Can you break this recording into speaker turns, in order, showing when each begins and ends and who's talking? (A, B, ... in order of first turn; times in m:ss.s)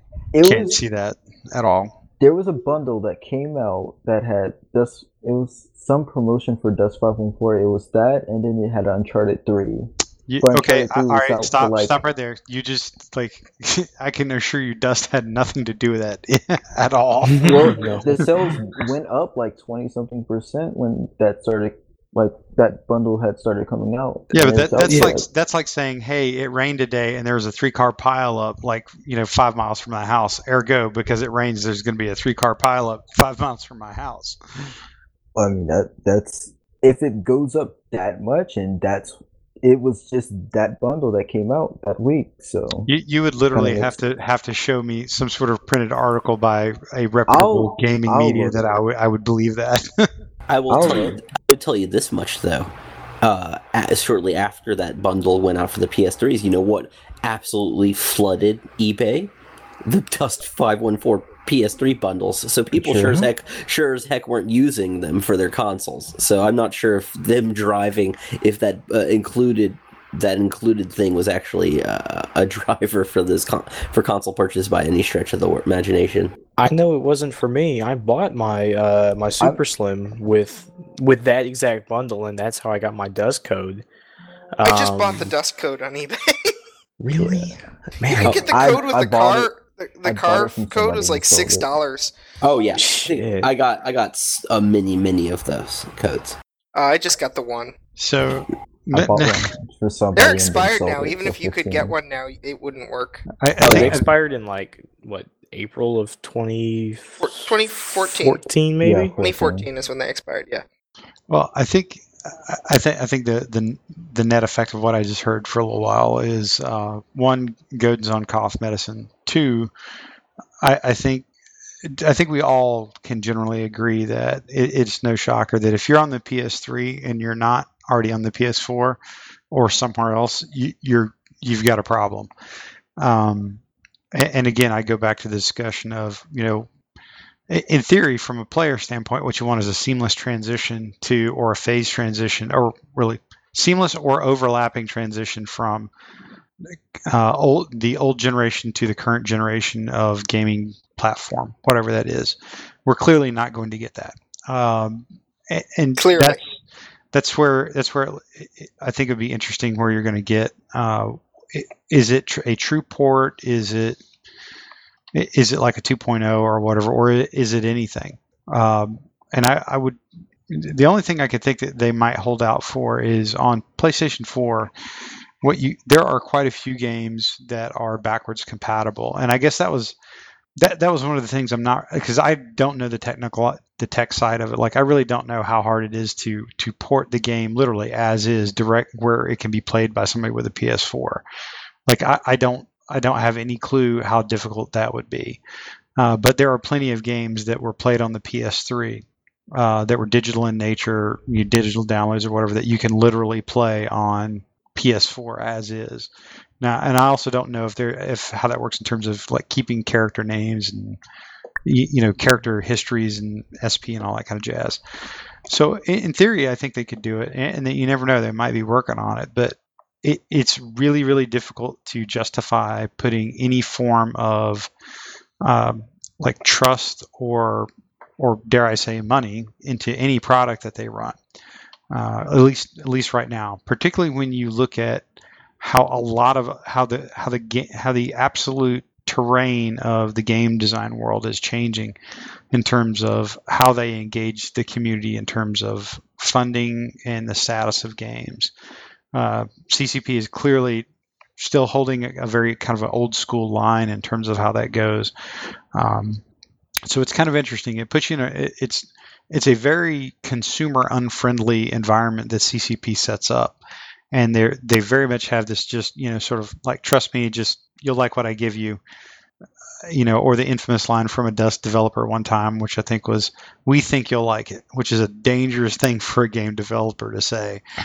0:00.3-0:00.8 A
0:00.4-0:01.9 B
0:02.2-0:12.0 A
0:10.3-0:18.2 B
0:17.4-0:25.2 A
0:17.4-0:18.1 C
0:24.3-0:34.4 B
0:35.3-0:42.9 A
0:42.9-0:50.1 B
0:43.5-0:44.0 A
0:47.3-0:48.6 A
0:50.5-0:52.7 D
0:50.7-0:51.2 A
0:53.2-0:59.3 D
0:59.8-1:16.3 D
1:02.7-1:03.3 A
1:16.6-1:23.8 C
1:24.6-1:25.3 C
1:24.6-1:26.5 E
1:27.0-1:28.5 C
1:27.2-1:27.5 A
1:28.2-1:32.1 E
1:28.5-1:29.5 A
1:30.0-1:31.7 A
1:32.4-1:36.4 D
1:32.8-1:33.5 C
1:36.7-1:37.7 E
1:38.0-1:39.5 B
1:38.9-1:41.9 A
1:40.2-1:43.2 E
1:43.4-1:44.0 B
1:43.6-1:44.0 D
1:43.6-1:49.2 C
1:47.2-1:48.4 E
1:48.8-1:49.7 A
1:49.2-1:50.6 E
1:51.3-1:59.7 B
2:00.6-2:01.3 B
2:01.8-2:09.0 B
2:09.5-2:12.3 B
2:13.0-2:13.6 B
2:14.1-2:16.7 B
2:17.5-2:25.9 B
2:26.7-2:36.5 B
2:36.0-2:36.4 E
2:37.1-2:44.0 B
2:45.1-2:54.7 B
2:55.4-3:00.0 B
3:00.6-3:11.2 B
3:11.9-3:15.4 B
3:16.0-3:31.0 B
3:31.6-3:34.8 B
3:35.5-3:44.7 B
3:45.4-3:51.2 B
3:51.9-3:55.0 B
3:55.6-4:02.0 B
4:02.5-4:08.5 B
4:09.1-4:10.8 B
4:11.4-4:15.1 B
4:15.7-4:16.2 B
4:16.8-4:23.6 B
4:24.1-4:28.8 B
4:29.9-4:37.6 B